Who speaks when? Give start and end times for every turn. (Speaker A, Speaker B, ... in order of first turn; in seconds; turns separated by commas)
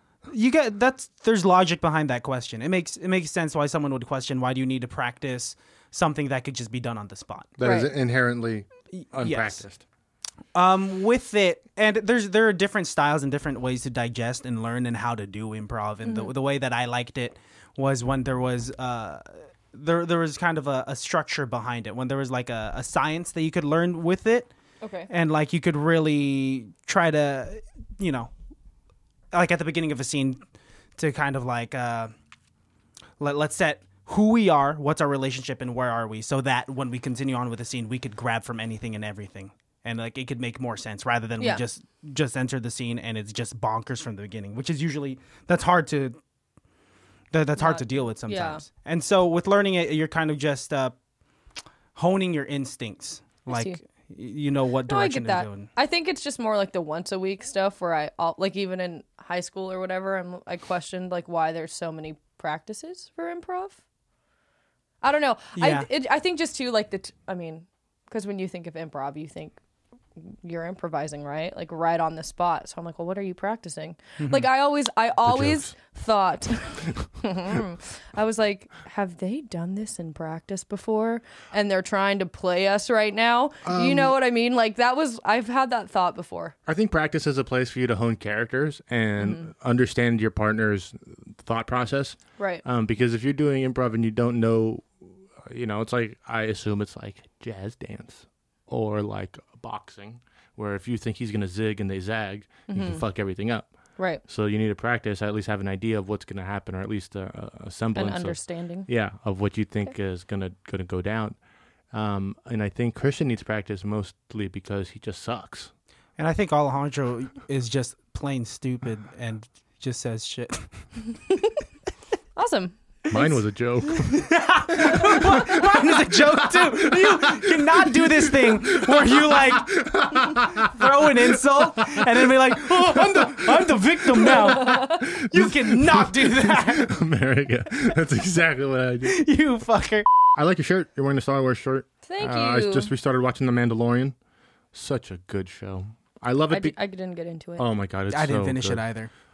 Speaker A: 0.3-7.6, Speaker B: 7.6-9.8, Speaker C: 7.6-7.9, Speaker A: 8.9-9.6, Speaker A: 10.5-24.5, Speaker C: 16.1-16.3, Speaker C: 24.8-25.1, Speaker A: 25.1-28.3, Speaker A: 29.3-30.4, Speaker A: 31.0-32.1, Speaker A: 33.2-46.2, Speaker A: 47.3-51.0, Speaker C: 47.6-48.6, Speaker A: 52.0-55.7, Speaker C: 53.5-53.8, Speaker C: 54.9-63.8, Speaker C: 65.0-69.6, Speaker A: 65.6-65.9, Speaker C: 70.2-86.5, Speaker A: 74.2-74.5, Speaker B: 75.2-75.7, Speaker B: 83.6-84.1, Speaker B: 86.7-103.7, Speaker C: 89.2-89.5, Speaker C: 92.4-92.6, Speaker C: 102.7-103.0, Speaker B: 104.3-111.4, Speaker C: 108.0-108.9, Speaker B: 111.9-115.7, Speaker A: 116.2-120.7, Speaker C: 122.4-123.2, Speaker B: 123.1-139.2, Speaker A: 124.0-129.8, Speaker A: 130.4-136.9, Speaker C: 134.6-135.0, Speaker A: 139.0-140.1, Speaker B: 140.4-144.2, Speaker C: 142.1-142.9, Speaker B: 144.7-146.8, Speaker C: 146.5-147.6, Speaker B: 147.6-148.8, Speaker A: 148.1-149.1